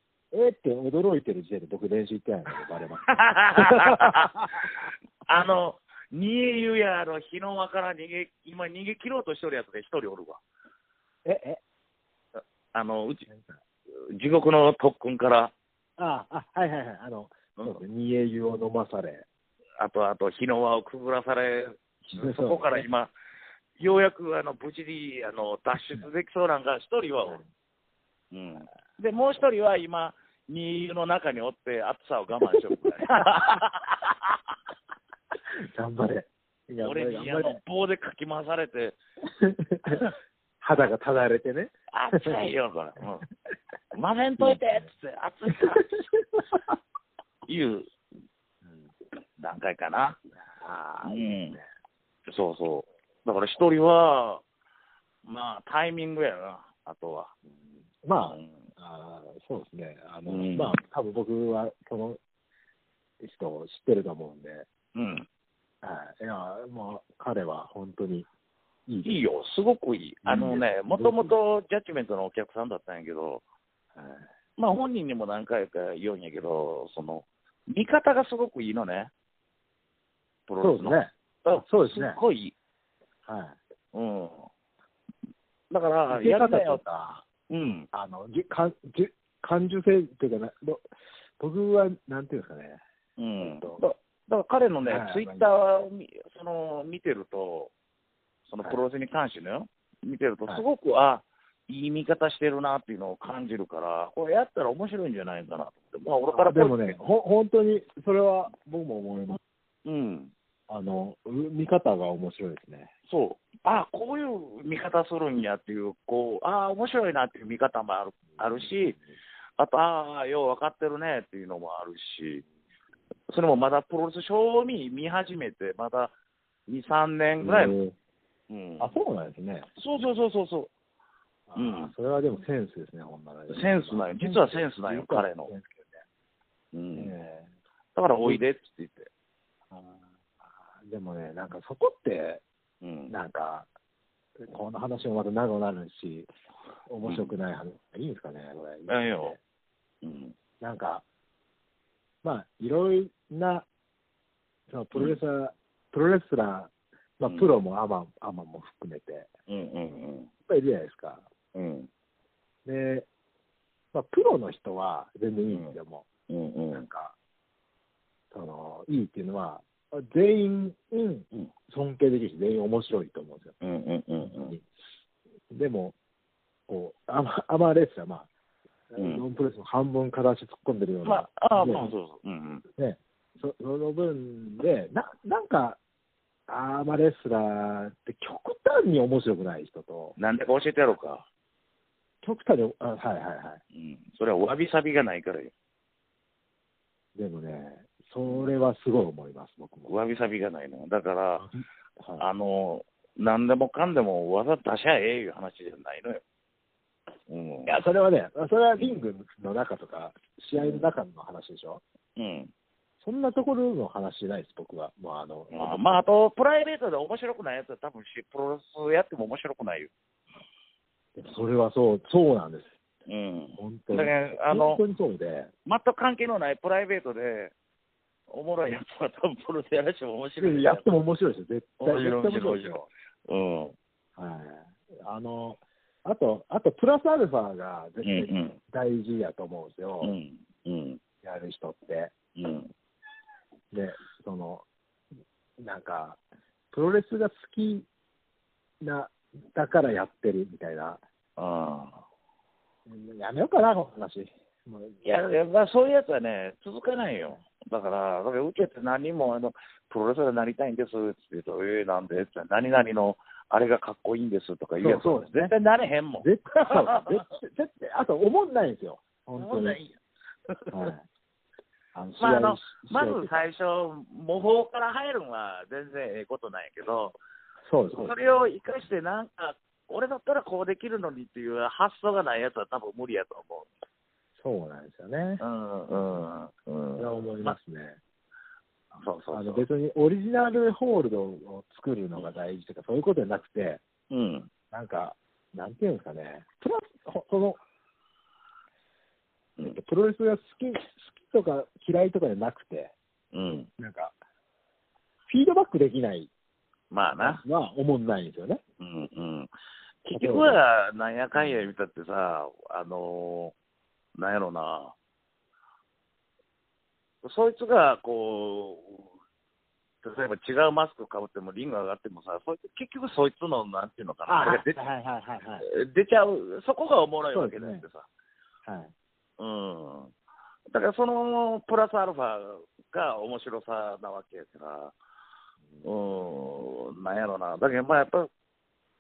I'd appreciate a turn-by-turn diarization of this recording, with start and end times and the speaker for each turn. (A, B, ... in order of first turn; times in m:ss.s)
0:00.3-0:04.8 A
0:03.1-0:10.4 B
0:11.2-0:11.6 A
0:12.7-0:13.3 B
0:13.3-0:13.6 A
0:14.1-0:15.5 B
0:16.0-0:19.3 A
0:17.6-0:17.8 B
0:19.8-0:23.1 B
0:22.0-0:22.9 A
0:23.8-0:27.4 B
0:28.3-0:34.4 B
0:35.5-0:37.6 A
0:36.8-0:39.0 B
0:39.3-0:40.1 A
0:40.6-0:42.4 A
0:41.9-0:43.3 B
0:43.9-0:45.9 B
0:44.4-0:44.8 A
0:45.6-0:46.8 A
0:47.5-0:47.9 B
0:49.4-0:50.2 B
0:50.5-0:51.7 A
0:51.0-0:51.6 B
0:52.3-0:54.4 B
0:55.2-0:57.4 B
0:58.0-1:02.2 A
0:58.2-0:58.6 B
1:00.3-1:00.8 B
1:03.2-1:04.7 A
1:05.0-1:05.3 B
1:05.8-1:08.3 A
1:08.9-1:09.1 A
1:09.0-1:13.4 B
1:10.2-1:11.3 A
1:14.0-1:14.3 A
1:14.6-1:19.1 B
1:20.5-1:22.6 B
1:20.6-1:22.2 A
1:23.3-1:23.6 A
1:23.9-1:24.5 B
1:25.7-1:26.8 B
1:26.1-1:27.3 A
1:27.5-1:27.9 B
1:27.9-1:32.8 A
1:33.2-1:37.7 B
1:33.4-1:33.8 A
1:34.9-1:35.5 A
1:38.5-1:47.0 B
1:46.4-1:49.4 A
1:49.8-1:50.3 B
1:50.7-1:52.9 A
1:53.1-1:59.0 B
1:58.5-1:59.0 A
1:59.6-2:02.4 B
2:03.3-2:06.1 B
2:06.7-2:07.8 B
2:07.4-2:08.0 A
2:08.5-2:08.9 B
2:08.8-2:09.7 A
2:09.8-2:10.7 B
2:11.5-2:16.0 A
2:11.6-2:11.9 B
2:13.5-2:15.5 B
2:16.7-2:17.1 B
2:17.0-2:17.5 A
2:18.0-2:19.1 B
2:19.7-2:22.4 A
2:22.8-2:23.1 B
2:23.1-2:23.7 A
2:24.4-2:26.3 A
2:26.9-2:29.4 A
2:27.0-2:27.3 B
2:28.9-2:29.4 B
2:30.0-2:30.4 B
2:30.6-2:31.0 A
2:32.2-2:33.7 A
2:34.7-2:39.3 A
2:39.5-2:40.3 B
2:40.5-2:41.3 A
2:41.6-2:41.9 B
2:42.6-2:43.1 A
2:43.9-2:46.1 A
2:45.5-2:45.8 B
2:46.3-2:46.9 B
2:46.7-2:47.2 A
2:48.3-2:53.6 A
2:53.6-2:54.6 B
2:54.2-2:54.7 A
2:55.5-2:56.0 A
2:56.7-2:58.3 A
2:58.9-3:01.9 A
2:59.0-2:59.2 B
3:01.0-3:02.6 B
3:02.8-3:05.8 A
3:06.5-3:10.2 A
3:10.2-3:11.2 B
3:12.2-3:13.6 A
3:13.7-3:15.5 B
3:17.2-3:19.9 A
3:19.9-3:21.5 B
3:21.4-3:22.2 A
3:22.2-3:26.2 B
3:27.3-3:27.7 B
3:27.7-3:31.8 A
3:30.6-3:30.9 B
3:32.2-3:32.5 B
3:33.0-3:36.0 A
3:35.5-3:39.9 B
3:41.2-3:42.8 A
3:43.1-3:44.8 B
3:43.6-3:45.5 A
3:45.7-3:47.5 B
3:48.3-3:50.9 B
3:50.4-3:52.9 A
3:51.8-3:53.8 B
3:54.2-4:00.1 A
3:58.0-3:58.6 B
4:00.0-4:01.0 B
4:01.2-4:02.1 A
4:02.4-4:02.7 B
4:03.7-4:04.7 A
4:05.6-4:06.2 A
4:06.7-4:07.9 A
4:08.8-4:11.0 A
4:11.4-4:12.0 B
4:12.9-4:15.0 A
4:15.0-4:27.2 B
4:24.8-4:25.5 A
4:26.2-4:29.8 A
4:29.4-4:30.0 B
4:30.5-4:30.9 B
4:30.7-4:31.0 A
4:32.0-4:33.4 A
4:32.2-4:37.2 B
4:37.7-4:38.2 A
4:37.9-4:43.7 B
4:44.4-4:46.3 A
4:45.4-4:47.6 B
4:47.0-4:48.0 A
4:49.0-4:49.6 B
4:49.3-4:53.8 A
4:54.1-4:54.5 B
4:54.7-4:57.6 A
4:59.6-5:02.9 A
5:03.3-5:03.7 B
5:03.8-5:04.2 A
5:05.3-5:06.3 A
5:06.9-5:07.4 B
5:07.2-5:08.6 A
5:08.8-5:09.5 B
5:10.1-5:10.6 A
5:10.1-5:13.6 B
5:11.4-5:11.7 A
5:14.2-5:15.0 B
5:17.2-5:19.1 B
5:20.0-5:24.8 B
5:24.3-5:25.7 A
5:25.6-5:28.1 B
5:27.3-5:27.8 A
5:28.7-5:28.9 A
5:29.4-5:30.1 B
5:30.7-5:35.0 B
5:35.8-5:38.3 B